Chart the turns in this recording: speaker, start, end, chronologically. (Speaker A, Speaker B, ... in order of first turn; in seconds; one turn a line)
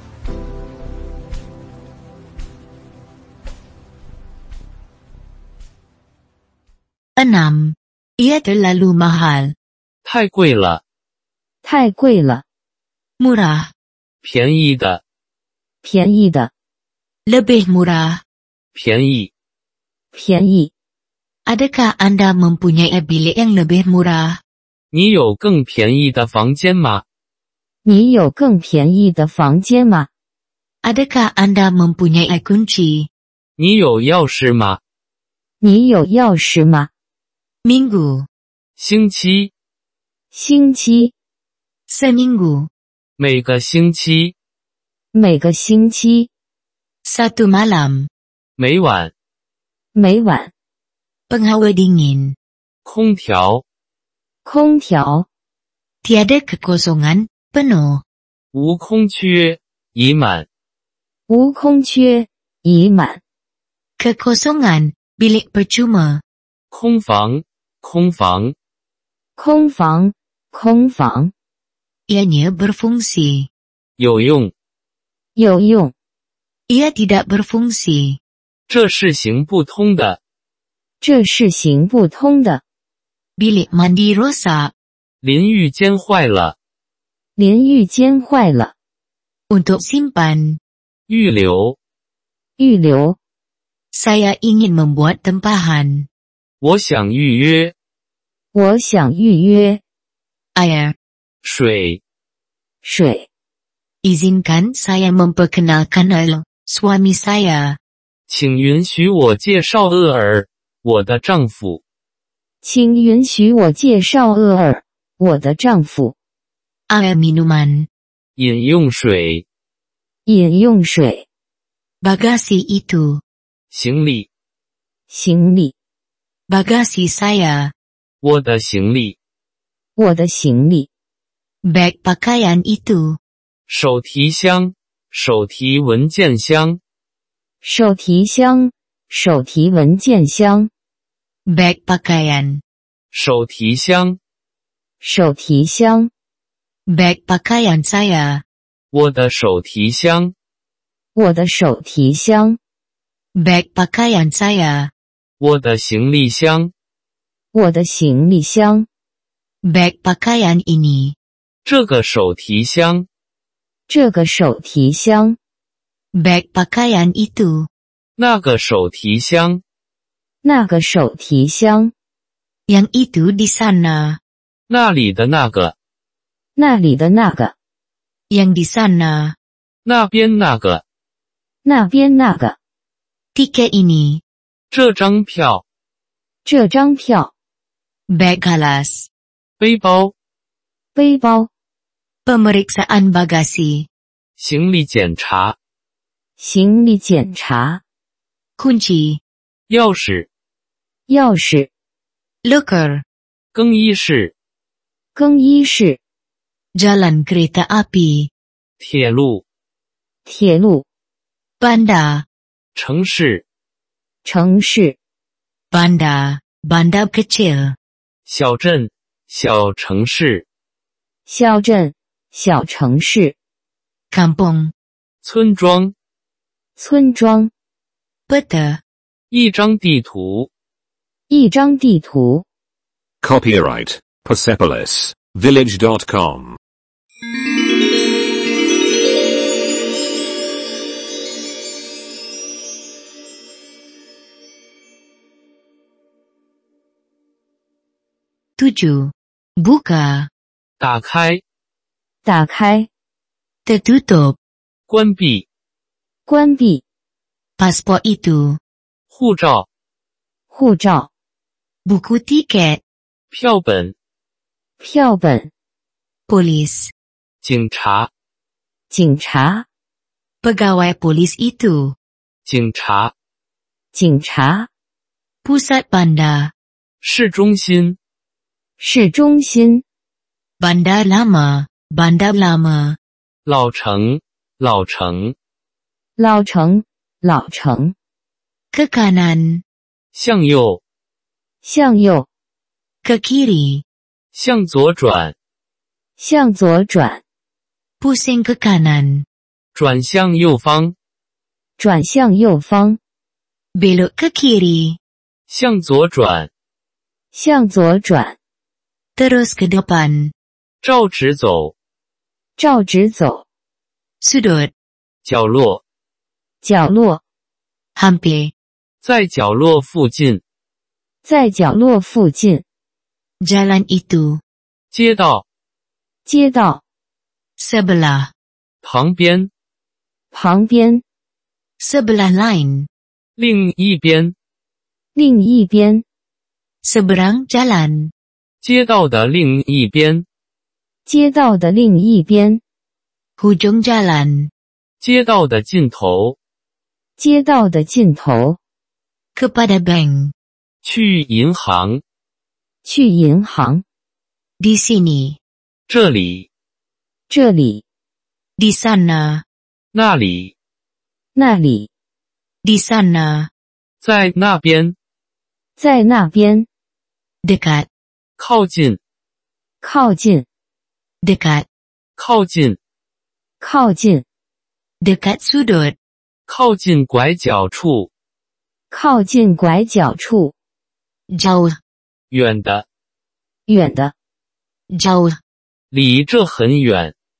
Speaker A: 7.2-9.5
Speaker B: 10.1-10.8
Speaker C: 11.6-12.4
Speaker A: 13.2-13.7
Speaker B: 14.2-15.0
Speaker C: 15.8-16.5
Speaker A: 17.3-18.2
Speaker B: 18.7-19.3
Speaker C: 20.1-20.7
Speaker A: 21.4-24.4
Speaker B: 24.9-27.0
Speaker C: 27.9-30.1
Speaker A: 30.8-33.1
Speaker B: 33.6-34.8
Speaker C: 35.6-36.9
Speaker A: 37.6-38.3
Speaker B: 38.8-39.5
Speaker C: 40.3-41.1
Speaker A: 41.9-42.7
Speaker B: 43.2-44.3
Speaker C: 45.1-46.3
Speaker A: 47.0-48.1
Speaker B: 48.6-49.1
Speaker C: 49.9-50.5
Speaker A: 51.3-52.4
Speaker B: 52.9-53.6
Speaker C: 54.4-55.3
Speaker A: 56.0-58.0
Speaker B: 58.5-60.5
Speaker C: 61.3-63.2
Speaker A: 64.0-66.2
Speaker B: 66.7-68.5
Speaker C: 69.4-71.3
Speaker A: 72.1-73.5
Speaker B: 74.0-74.5
Speaker C: 75.4-75.9
Speaker A: 76.7-78.2
Speaker B: 78.7-80.2
Speaker C: 81.0-82.6
Speaker A: 83.4-84.7
Speaker B: 85.2-86.6
Speaker C: 87.4-88.7
Speaker A: 89.5-90.6
Speaker B: 91.1-91.8
Speaker C: 92.6-93.2
Speaker A: 93.9-96.1
Speaker B: 96.6-97.7
Speaker C: 98.5-99.8
Speaker A: 100.5-100.9
Speaker B: 101.4-102.0
Speaker C: 102.8-103.3
Speaker A: 104.0-107.8
Speaker B: 108.3-111.8
Speaker C: 112.6-116.1
Speaker A: 116.9-117.9
Speaker B: 118.4-119.4
Speaker C: 120.2-121.2
Speaker A: 122.0-123.2
Speaker B: 123.7-124.3
Speaker C: 125.1-125.7
Speaker A: 126.5-127.7
Speaker B: 128.2-129.2
Speaker C: 129.9-130.9
Speaker A: 131.6-133.2
Speaker B: 133.7-136.8
Speaker C: 137.6-140.7
Speaker A: 141.5-142.6
Speaker B: 143.1-144.2
Speaker C: 145.0-146.1
Speaker A: 146.9-148.4
Speaker B: 148.9-150.3
Speaker C: 151.1-152.6
Speaker A: 153.3-154.9
Speaker B: 155.4-156.7
Speaker C: 157.5-158.9
Speaker A: 159.6-161.1
Speaker B: 161.6-163.1
Speaker C: 163.9-165.4
Speaker A: 166.1-167.7
Speaker B: 168.2-169.6
Speaker C: 170.4-171.9
Speaker A: 172.7-174.2
Speaker B: 174.7-175.7
Speaker C: 176.6-177.6
Speaker A: 178.3-179.4
Speaker B: 179.8-180.8
Speaker C: 181.6-182.6
Speaker A: 183.3-184.2
Speaker B: 184.7-185.6
Speaker C: 186.4-187.3
Speaker A: 188.1-189.1
Speaker B: 189.6-190.1
Speaker C: 190.9-191.5
Speaker A: 192.2-193.9
Speaker B: 194.4-195.6
Speaker C: 196.4-197.8
Speaker A: 198.6-199.2
Speaker B: 199.7-200.3
Speaker C: 201.1-201.7
Speaker A: 202.4-203.0
Speaker B: 203.5-204.3
Speaker C: 205.1-206.0
Speaker A: 206.7-208.3
Speaker B: 208.8-209.4
Speaker C: 210.2-210.9
Speaker A: 211.6-212.2
Speaker B: 212.7-213.4
Speaker C: 214.2-215.0
Speaker A: 215.7-217.8
Speaker B: 218.2-220.4
Speaker C: 221.3-223.4
Speaker A: 224.1-224.7
Speaker B: 225.2-225.9
Speaker C: 226.8-227.5
Speaker A: 228.3-228.8
Speaker B: 229.3-230.5
Speaker C: 231.3-232.4
Speaker D: 233.2-236.6
Speaker A: 248.6-250.3
Speaker B: 250.8-251.4
Speaker C: 252.2-252.9
Speaker A: 253.6-254.4
Speaker B: 254.9-255.4
Speaker C: 256.3-256.8
Speaker A: 257.6-258.6
Speaker B: 259.1-259.7
Speaker C: 260.5-261.1
Speaker A: 261.9-262.8
Speaker B: 263.3-263.9
Speaker C: 264.8-265.5
Speaker A: 266.3-266.9
Speaker B: 267.4-268.1
Speaker C: 268.9-269.6
Speaker A: 270.4-271.9
Speaker B: 272.4-273.1
Speaker C: 273.9-274.7
Speaker A: 275.4-276.5
Speaker B: 277.0-278.0
Speaker C: 278.8-279.8
Speaker A: 280.6-283.0
Speaker B: 283.4-285.4
Speaker C: 286.2-287.9
Speaker A: 288.7-289.6
Speaker B: 290.1-290.8
Speaker C: 291.6-292.3
Speaker A: 293.0-293.8
Speaker B: 294.3-295.4
Speaker C: 296.2-297.2
Speaker A: 298.0-299.2
Speaker B: 299.7-300.9
Speaker C: 301.8-303.0
Speaker A: 303.7-305.0
Speaker B: 305.5-306.5
Speaker C: 307.3-308.4
Speaker A: 309.2-310.3
Speaker B: 310.8-311.7
Speaker C: 312.6-313.4
Speaker A: 314.2-314.7
Speaker B: 315.2-315.8
Speaker C: 316.6-317.2
Speaker A: 317.9-318.5
Speaker B: 319.0-320.4
Speaker C: 321.2-322.6
Speaker A: 323.4-324.4
Speaker B: 324.9-325.4
Speaker C: 326.2-326.8
Speaker A: 327.6-328.3
Speaker B: 328.8-329.5
Speaker C: 330.3-331.0
Speaker A: 331.8-332.9
Speaker B: 333.4-334.4
Speaker C: 335.1-336.0
Speaker A: 336.8-338.1
Speaker B: 338.6-340.2
Speaker C: 341.1-342.6
Speaker A: 343.4-344.5
Speaker B: 345.0-346.4
Speaker C: 347.2-348.6
Speaker A: 349.4-350.3
Speaker B: 350.8-352.0
Speaker C: 352.8-353.8
Speaker A: 354.6-355.4
Speaker B: 355.9-356.5
Speaker C: 357.3-357.8
Speaker A: 358.6-359.4
Speaker B: 359.9-360.5
Speaker C: 361.4-361.9
Speaker A: 362.6-363.5
Speaker B: 364.0-364.9
Speaker C: 365.8-366.7
Speaker A: 367.4-367.9
Speaker B: 368.4-369.0
Speaker C: 369.8-370.4
Speaker A: 371.2-371.6
Speaker B: 372.2-372.8
Speaker C: 373.6-374.2
Speaker A: 375.0-375.9
Speaker B: 376.5-378.1
Speaker C: 378.9-380.5
Speaker A: 381.3-381.8
Speaker B: 382.3-382.9
Speaker C: 383.7-384.1
Speaker A: 384.9-385.4
Speaker B: 385.9-387.1